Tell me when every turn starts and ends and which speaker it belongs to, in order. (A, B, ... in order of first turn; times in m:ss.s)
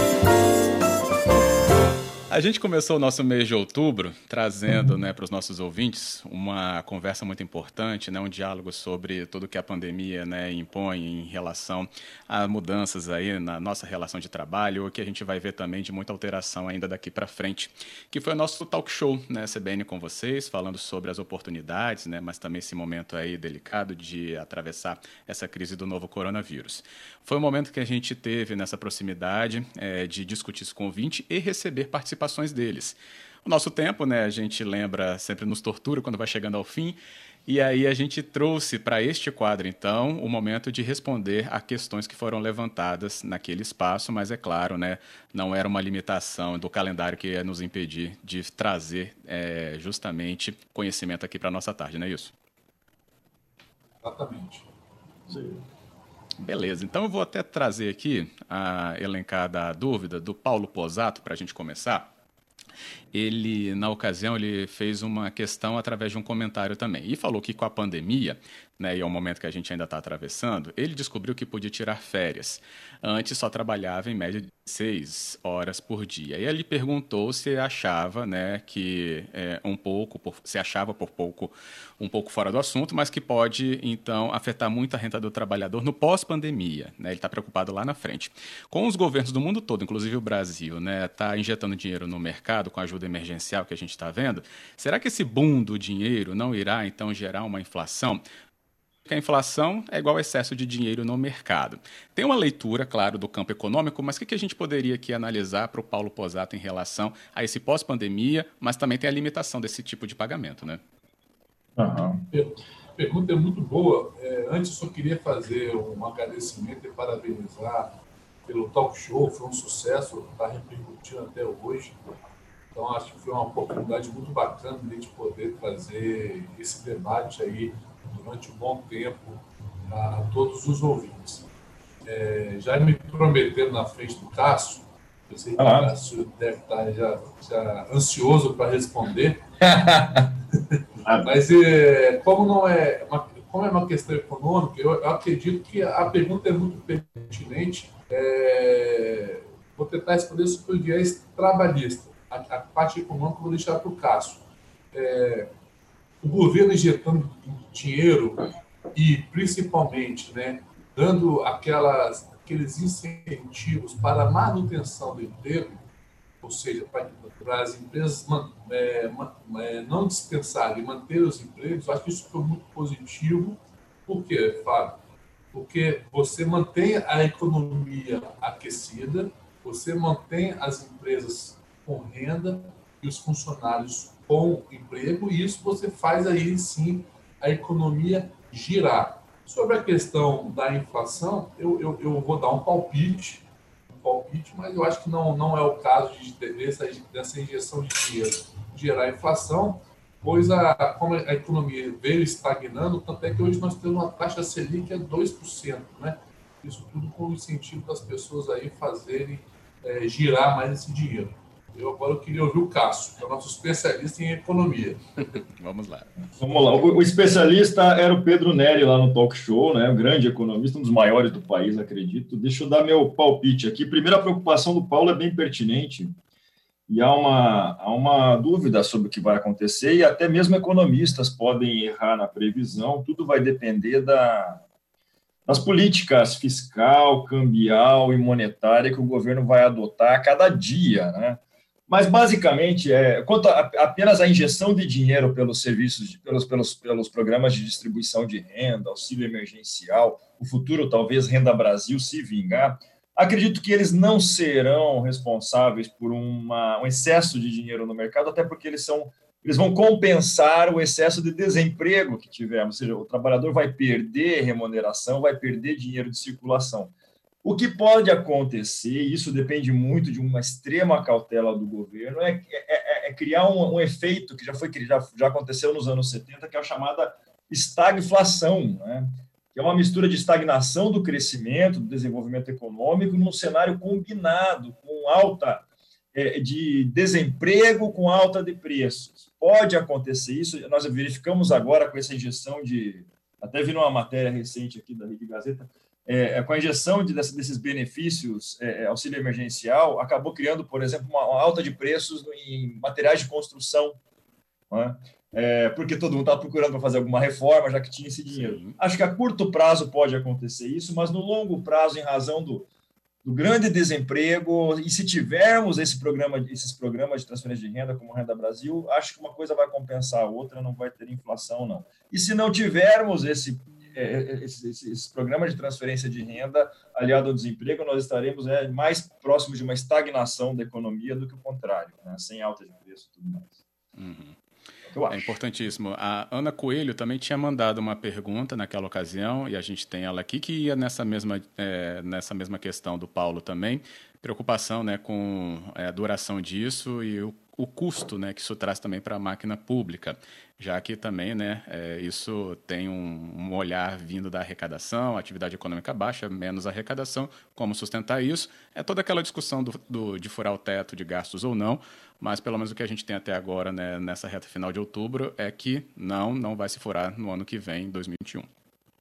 0:02.3-0:52.3 A
0:54.0-0:54.7 B
0:55.3-0:55.6 C
0:56.4-1:02.1 A
1:03.1-1:38.2 A
1:39.1-1:50.8 A
1:51.8-1:52.2 C
1:52.3-1:57.9 B
1:58.4-2:02.0 B
2:02.7-2:11.5 B
2:12.0-2:19.4 B
2:15.6-2:15.9 C
2:19.6-2:20.2 C
2:20.7-2:35.5 B
2:36.2-2:45.8 B
2:46.4-2:55.0 B
2:55.5-3:35.4 B
3:35.2-3:36.1 A
3:36.4-3:46.1 C
3:46.9-3:54.6 C
3:55.5-4:26.9 C
4:27.4-5:04.0 C
5:04.7-5:12.7 C
5:08.3-5:08.8 A
5:13.2-5:33.6 C
5:34.0-5:34.4 A
5:34.9-5:35.3 C
5:35.1-6:08.5 A